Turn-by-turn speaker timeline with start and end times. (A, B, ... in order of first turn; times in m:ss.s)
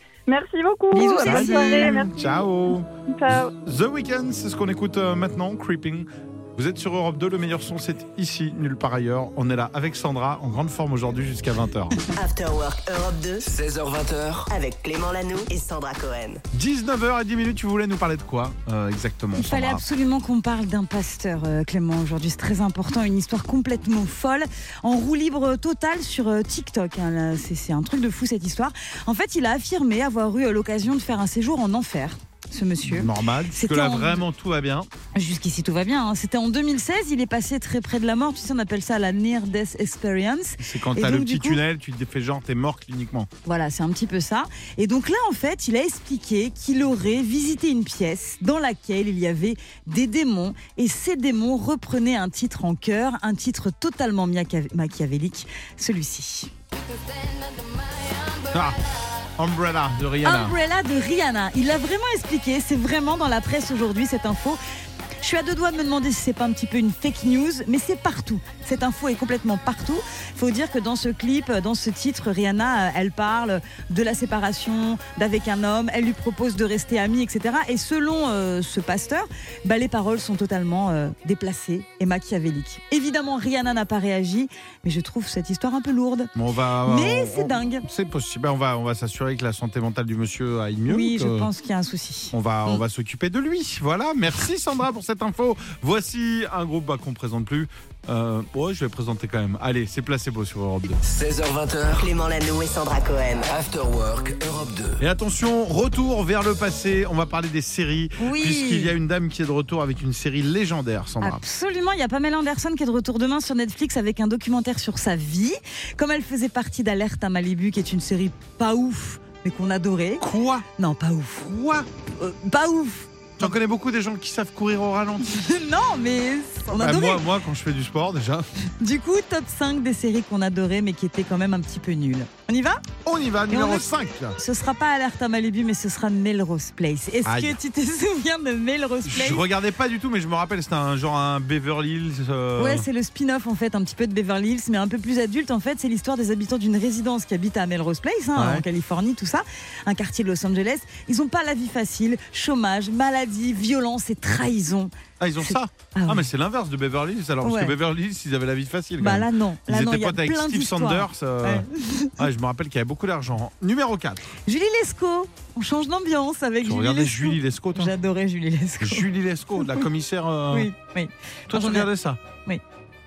0:00.3-0:02.5 A
0:00.9-0:02.1 B
0:01.2-0:02.9 C
0:03.1-0:03.5 A
0:03.6-0:12.0 C
0:12.1-0:13.4 D
0:13.4-0:14.5 E
0:14.5-0:16.4 D
0:16.5-0:19.8 C
0:19.3-0:34.2 B
0:32.8-0:34.9 C
0:35.1-0:41.6 B
0:40.6-0:43.3 C
0:43.4-0:56.5 B
0:58.5-0:58.8 C
0:59.4-1:00.6 C
1:00.2-1:04.6 B
1:05.2-1:26.3 B
1:26.3-1:31.5 C
1:26.8-1:27.8 B
1:30.9-1:32.8 B
1:32.3-1:41.0 C
1:41.0-1:42.1 E
1:42.0-1:43.5 D
1:43.5-1:45.0 E
1:45.0-1:51.4 C
1:48.2-1:48.9 B
1:51.2-2:03.5 B
2:00.2-2:00.6 C
2:03.4-2:05.4 C
2:05.2-2:07.2 B
2:06.7-2:08.5 C
2:08.8-2:12.8 B
2:13.0-2:14.4 C
2:13.5-2:19.4 B
2:17.2-2:17.6 C
2:19.0-2:22.9 C
2:22.6-2:36.3 B
2:28.3-2:28.6 C
2:35.2-2:44.3 C
2:37.4-2:37.7 B
2:39.0-2:42.2 B
2:44.5-2:49.1 B
2:46.6-2:47.9 C
2:48.8-2:50.7 C
2:50.5-2:51.9 B
2:51.5-2:52.2 C